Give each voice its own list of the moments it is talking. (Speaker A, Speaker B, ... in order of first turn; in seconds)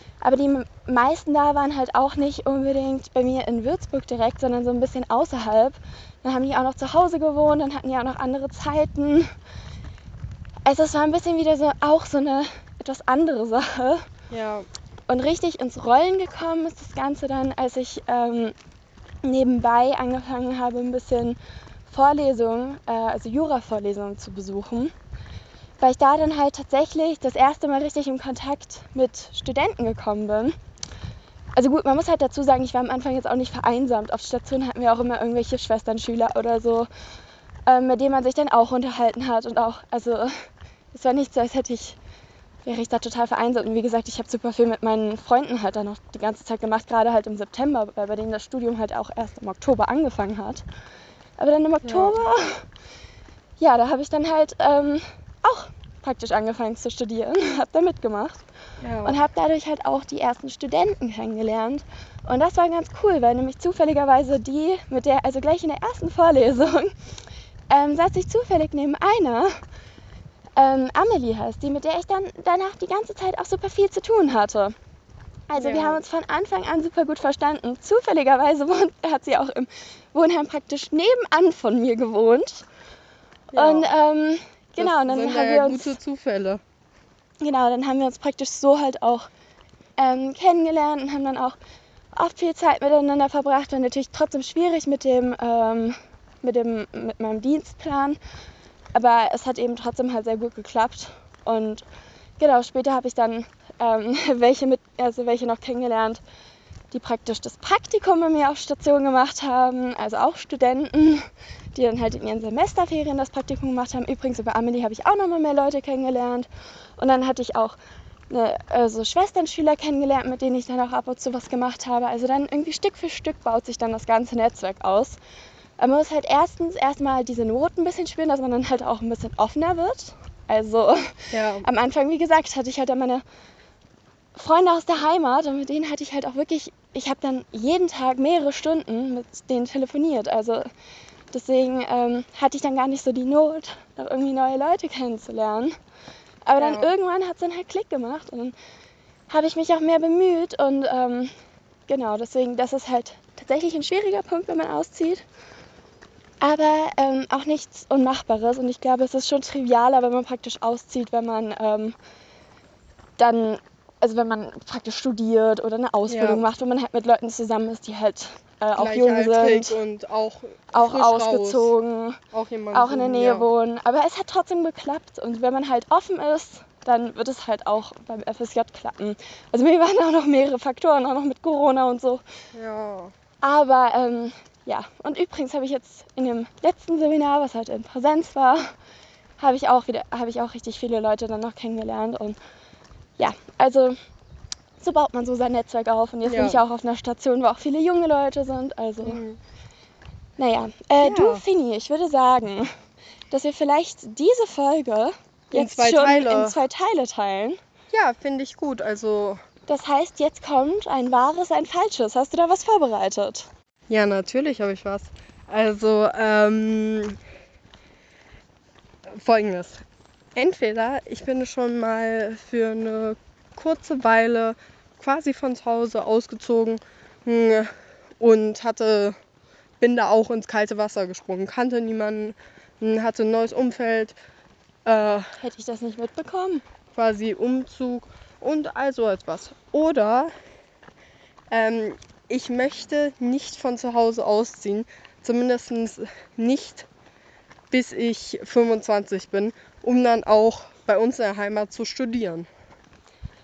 Speaker A: 0.2-9.3, 10.7-14.0, 15.1-18.5, 19.2-24.9, 25.8-30.6, 31.6-36.9, 37.7-42.0, 42.6-50.6, 51.4-52.6, 53.6-58.4, 59.0-66.9, 67.7-69.6, 70.6-74.7, 75.5-82.7, 83.6-86.0, 87.4-89.3, 90.0-91.6, 92.1-98.2, 98.9-101.8, 102.4-106.2, 106.9-117.8, 118.3-125.2, 125.8-133.2, 134.3-140.7, 141.3-145.8, 146.4-148.5, 149.3-151.3, 151.9-155.2, 156.4-161.9, 163.2-169.8, 170.7-172.2, 172.7-182.2, 183.4-188.7, 189.4-192.4, 193.2-193.9, 194.8-199.2, 200.4-202.7, 203.3-207.6, 209.7-213.5, 235.4-236.6
Speaker B: 14.3-14.7, 51.8-52.2, 58.8-59.2, 75.6-76.0, 83.5-83.9, 84.8-86.6, 131.3-131.7, 146.6-146.9, 166.1-166.4, 168.8-171.7, 172.3-173.5, 182.5-183.1, 196.2-196.6, 199.0-199.4, 201.0-201.4, 205.5-206.6, 207.9-209.4, 213.9-217.2, 219.1-219.8, 220.3-229.2, 229.8-234.2, 234.8-235.3, 236.9-240.3, 241.5-246.9, 247.7-252.5